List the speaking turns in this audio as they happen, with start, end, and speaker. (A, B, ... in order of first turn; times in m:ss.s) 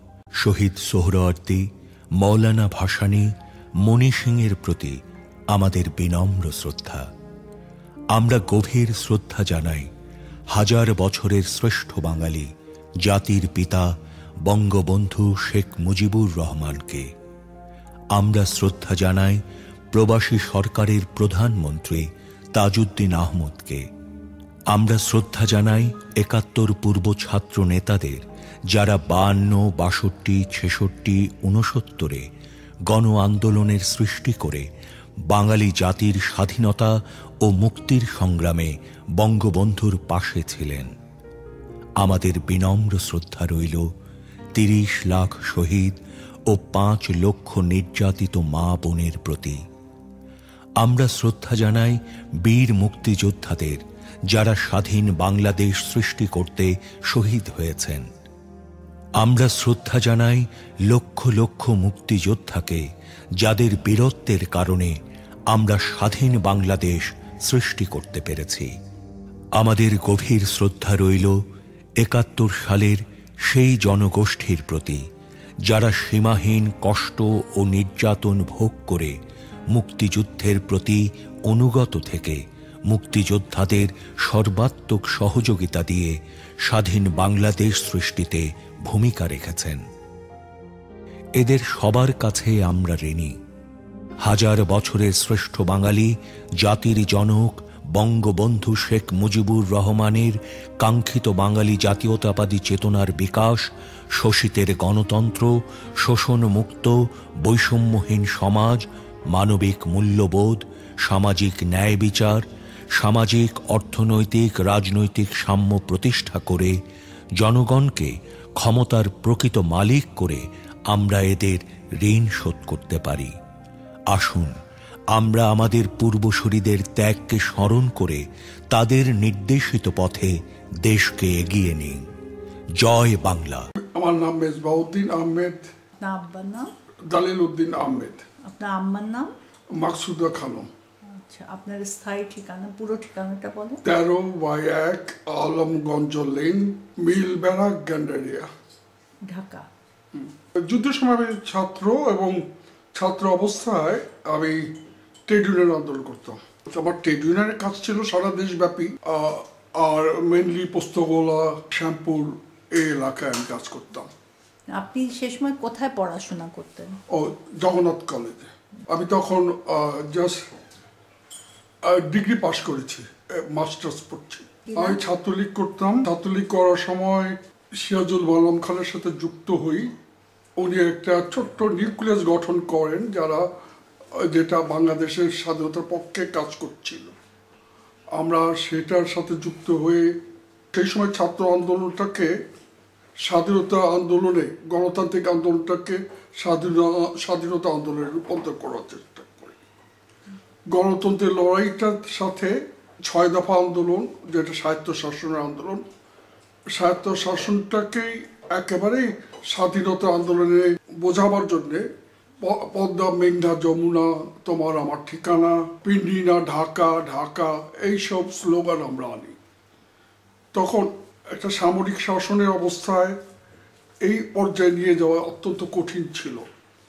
0:00.4-0:01.7 A
0:02.2-0:03.3 A
0:03.8-0:05.0 A
0:05.5-0:07.1 A
0:08.1-0:09.9 A
0:10.5-0:12.5 A
0:13.0-0:13.9 A
0:14.5-0:17.1 A
0:18.2-0:19.4 A
0:19.9-0:23.8 A
0:24.7-0:32.2 A
0:32.9-0:34.7 A
0:35.3-0:40.9 A
0:42.0-0:43.9 A
0:44.6-0:46.0 A
0:46.5-0:49.6 A
0:50.8-0:58.1 A
0:59.2-1:02.8 A
1:03.4-1:05.0 A
1:05.5-1:08.7 A
1:09.6-1:11.4 A
1:12.0-1:15.0 A
1:15.6-1:19.2 A
1:19.7-1:26.2 A
1:26.7-1:29.8 A
1:31.4-1:33.3 A
1:34.2-1:52.4 A
1:53.0-1:56.7 A
1:57.4-2:03.3 A
2:04.1-2:04.5 A
2:05.1-2:12.0 A
2:12.8-2:13.7 A
2:13.8-2:15.7 B
2:16.0-2:16.7 C
2:17.1-2:18.2 B
2:18.4-2:19.3 C
2:19.8-2:20.7 B
2:21.1-2:23.8 C
2:23.8-2:28.5 B
2:29.2-2:29.7 C
2:30.1-2:34.7 B
2:35.3-2:44.1 B
2:44.7-2:47.0 C
2:47.1-2:50.4 B
2:51.8-2:59.9 B
2:54.7-2:55.0 C
3:00.6-3:03.5 B
3:04.2-3:07.1 B
3:08.1-3:10.2 B
3:10.7-3:12.4 B
3:13.2-3:19.6 B
3:20.7-3:25.8 B
3:26.7-3:31.9 B
3:32.4-3:39.4 B
3:40.5-3:43.2 B
3:44.0-3:46.5 B